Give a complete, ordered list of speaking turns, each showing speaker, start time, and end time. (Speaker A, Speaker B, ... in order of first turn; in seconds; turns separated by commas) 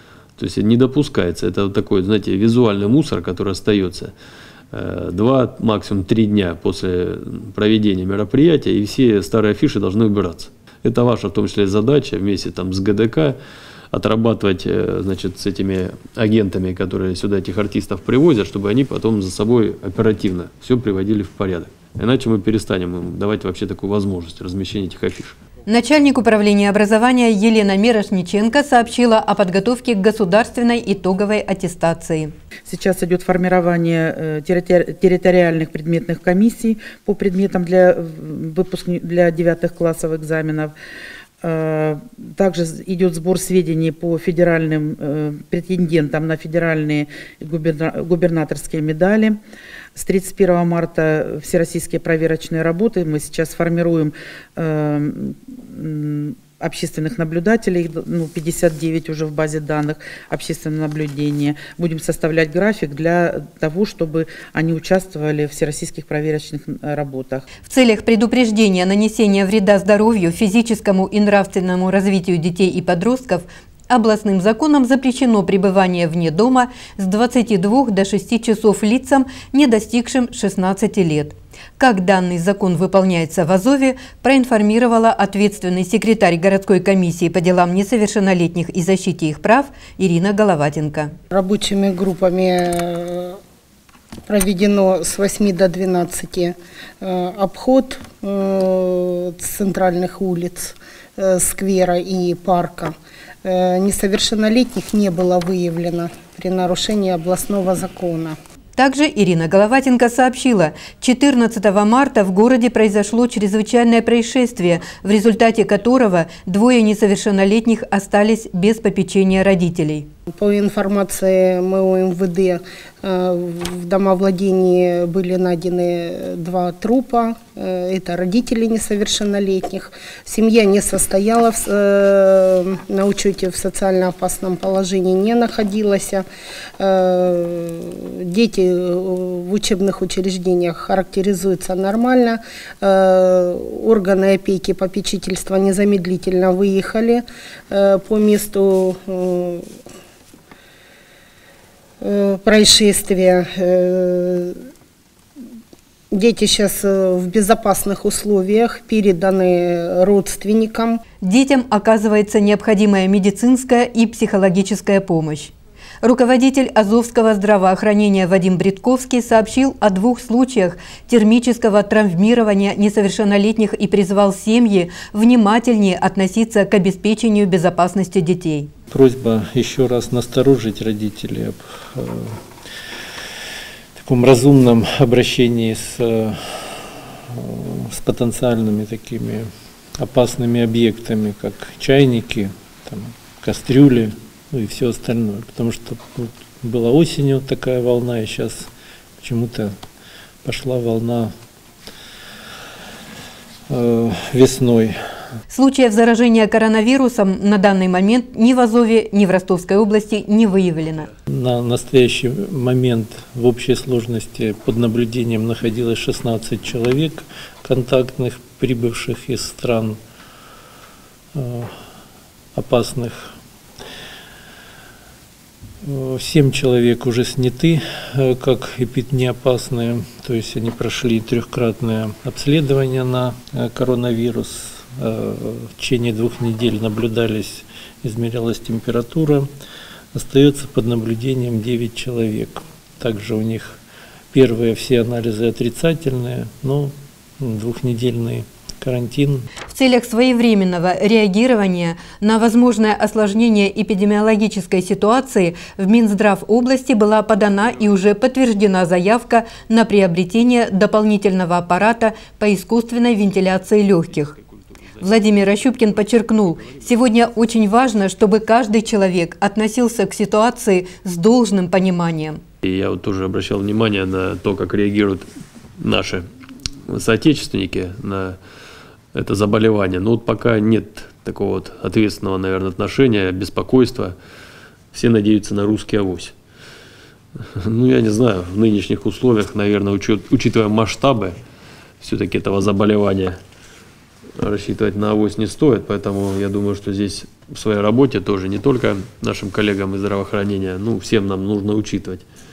Speaker A: 0.4-4.1, Speaker A: 4.7-13.4, Speaker A: 13.9-25.4, Speaker B: 25.7-32.3, Speaker C: 32.7-40.8, Speaker C: 41.4-49.4, Speaker C: 50.0-67.5, Speaker B: 67.7-91.1, Speaker D: 91.3-93.4, Speaker D: 94.3-108.4, Speaker B: 108.8-120.1, Speaker D: 120.3-136.2, Speaker D: 136.8-149.7, Speaker D: 152.0-154.6, Speaker D: 156.1-161.0, Speaker B: 161.2-178.7, Speaker E: 178.9-182.4, Speaker E: 184.0-198.7, Speaker E: 199.2-199.8, Speaker E: 200.4-201.3, Speaker E: 203.7-205.0, Speaker B: 205.5-211.1, Speaker E: 211.3-220.0, Speaker E: 221.3-221.7, Speaker E: 222.6-223.3, Speaker E: 225.8-239.5, Speaker E: 240.1-243.8, Speaker E: 244.3-249.5, Speaker B: 249.7-264.3, Speaker B: 265.0-272.4, Speaker A: 272.6-275.3, Speaker A: 275.8-276.2, Speaker A: 276.9-278.4, Speaker A: 279.1-284.2, Speaker A: 284.9-286.4, Speaker A: 287.6-291.4, Speaker A: 292.0-293.4, Speaker A: 294.4-302.2